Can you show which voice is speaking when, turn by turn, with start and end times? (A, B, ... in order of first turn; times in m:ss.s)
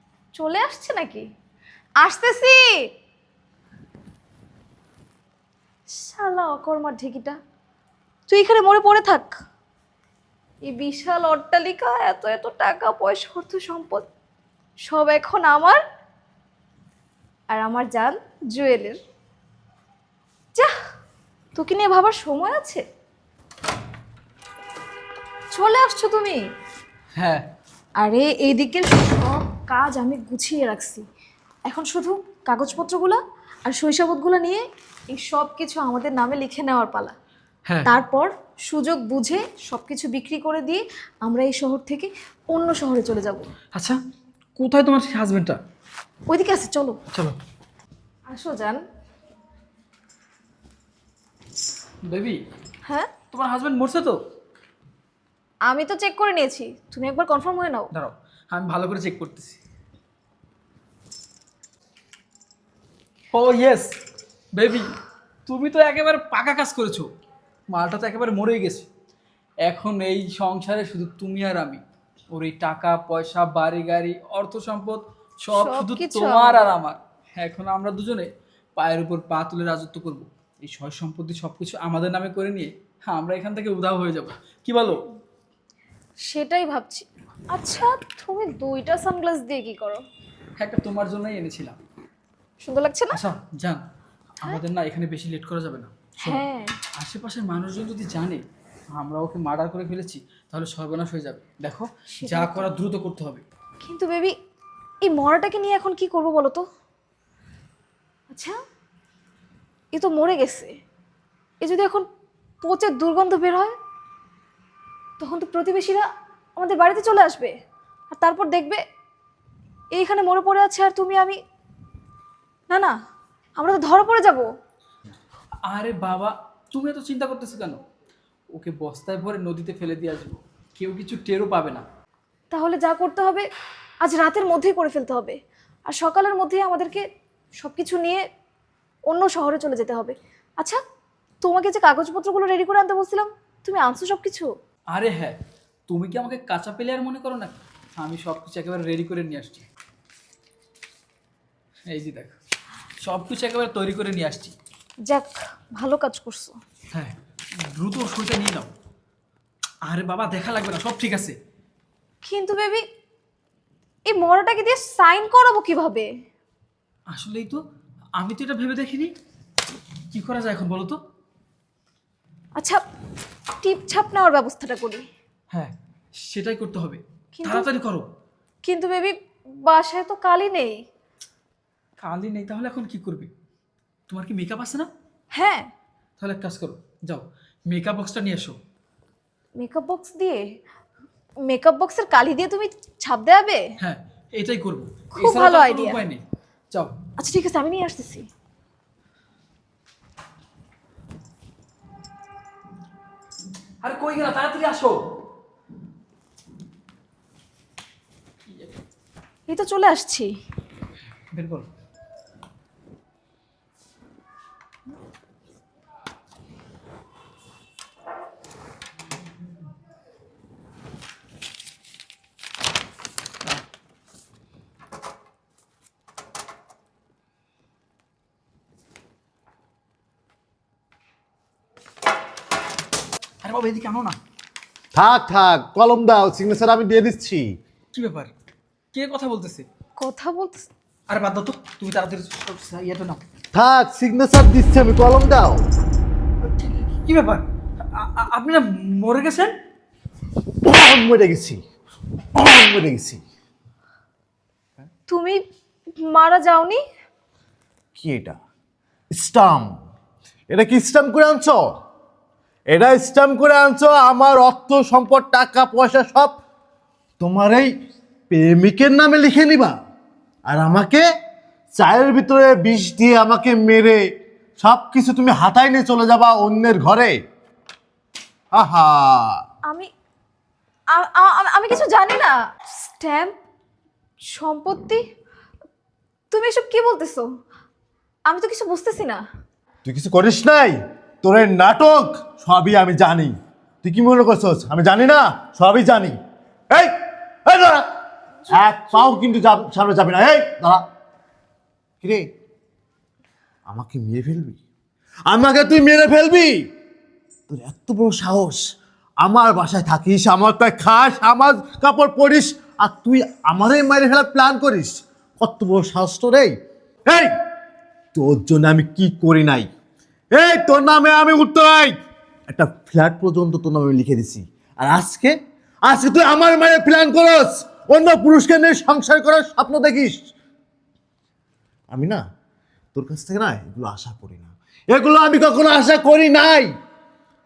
0:00.3-0:01.2 A
0:02.0-0:02.7 A
0:05.9-0:07.4 A
0:08.3-0:09.4 A
0:10.6-0:14.0 A
0:14.9-0:15.8 A
0:17.5-0:19.0 A
0:21.5-0:22.8 A
0:25.5-0:26.4 A
0:27.2-0:27.4 B
0:28.0-0:31.0 A
0:31.6-0:37.1 A
0:37.8-0:43.5 A
0:44.6-0:45.6 B
0:46.3-0:47.0 A
0:48.3-0:48.8 A
0:52.1-0:52.4 B
0:52.8-0:53.1 A
0:53.3-0:54.2 B
0:55.7-0:57.9 A
0:57.9-0:59.6 B
1:03.3-1:03.9 B
1:04.5-1:04.9 B
1:05.4-1:07.1 B
1:07.7-1:08.9 B
1:09.6-1:25.0 B
1:15.5-1:16.7 A
1:26.2-1:30.0 A
1:30.6-1:31.8 B
1:32.6-1:33.2 A
1:33.1-1:33.8 B
1:34.4-1:36.4 B
1:36.2-1:36.8 A
1:37.0-1:38.4 B
1:38.9-1:43.4 B
1:42.1-1:42.7 A
1:43.8-1:44.3 A
1:45.0-1:46.6 A
1:49.9-1:50.7 A
1:51.6-1:52.0 A
1:52.6-1:53.8 A
1:55.2-1:57.5 A
1:58.1-1:58.8 A
1:59.9-2:01.4 A
2:03.6-2:04.4 A
2:05.7-2:07.8 B
2:08.5-2:11.8 B
2:12.5-2:13.4 A
2:14.0-2:15.4 A
2:15.9-2:17.0 A
2:17.6-2:18.2 A
2:19.1-2:20.8 A
2:21.4-2:24.5 A
2:24.9-2:25.4 B
2:25.9-2:29.7 B
2:31.9-2:32.4 B
2:33.0-2:34.5 B
2:35.1-2:36.6 A
2:36.9-2:38.7 B
2:39.9-2:41.3 B
2:42.2-2:42.8 A
2:44.0-2:46.1 A
2:47.1-2:47.6 B
2:48.2-2:49.1 B
2:50.1-2:51.0 B
2:53.6-2:55.0 A
2:55.5-2:58.0 B
2:57.3-2:57.7 A
2:58.6-3:00.8 A
3:02.0-3:03.3 B
3:04.1-3:04.9 B
3:05.3-3:05.7 A
3:06.2-3:08.6 B
3:09.6-3:10.4 A
3:11.5-3:13.6 A
3:13.8-3:16.9 B
3:15.1-3:16.0 A
3:17.2-3:18.2 A
3:23.8-3:25.1 B
3:29.5-3:30.3 A
3:31.3-3:31.7 B
3:53.4-3:54.2 B
3:54.9-3:57.4 C
3:57.9-3:58.3 B
3:58.9-3:59.6 B
4:00.0-4:00.7 A
4:01.1-4:03.2 B
4:03.5-4:05.6 C
4:06.4-4:09.5 B
4:10.6-4:11.6 C
4:12.3-4:13.2 C
4:15.1-4:15.4 A
4:16.0-4:16.8 A
4:17.9-4:18.4 C
4:19.1-4:19.8 C
4:20.5-4:21.8 C
4:22.7-4:26.4 C
4:27.2-4:27.7 C
4:28.3-4:29.7 C
4:30.5-4:31.0 C
4:31.7-4:34.0 C
4:34.6-4:37.1 C
4:38.5-4:39.4 C
4:40.9-4:43.3 A
4:44.3-4:45.0 A
4:46.3-4:47.3 A
4:48.3-4:49.2 A
4:49.8-4:56.1 C
4:57.4-4:57.8 C
4:58.5-5:00.8 C
5:03.7-5:04.6 C
5:05.3-5:06.6 C
5:07.5-5:08.6 C
5:09.2-5:16.5 C
5:18.1-5:19.7 C
5:20.3-5:21.9 C
5:22.5-5:30.3 C
5:31.9-5:32.2 C
5:32.9-5:36.7 C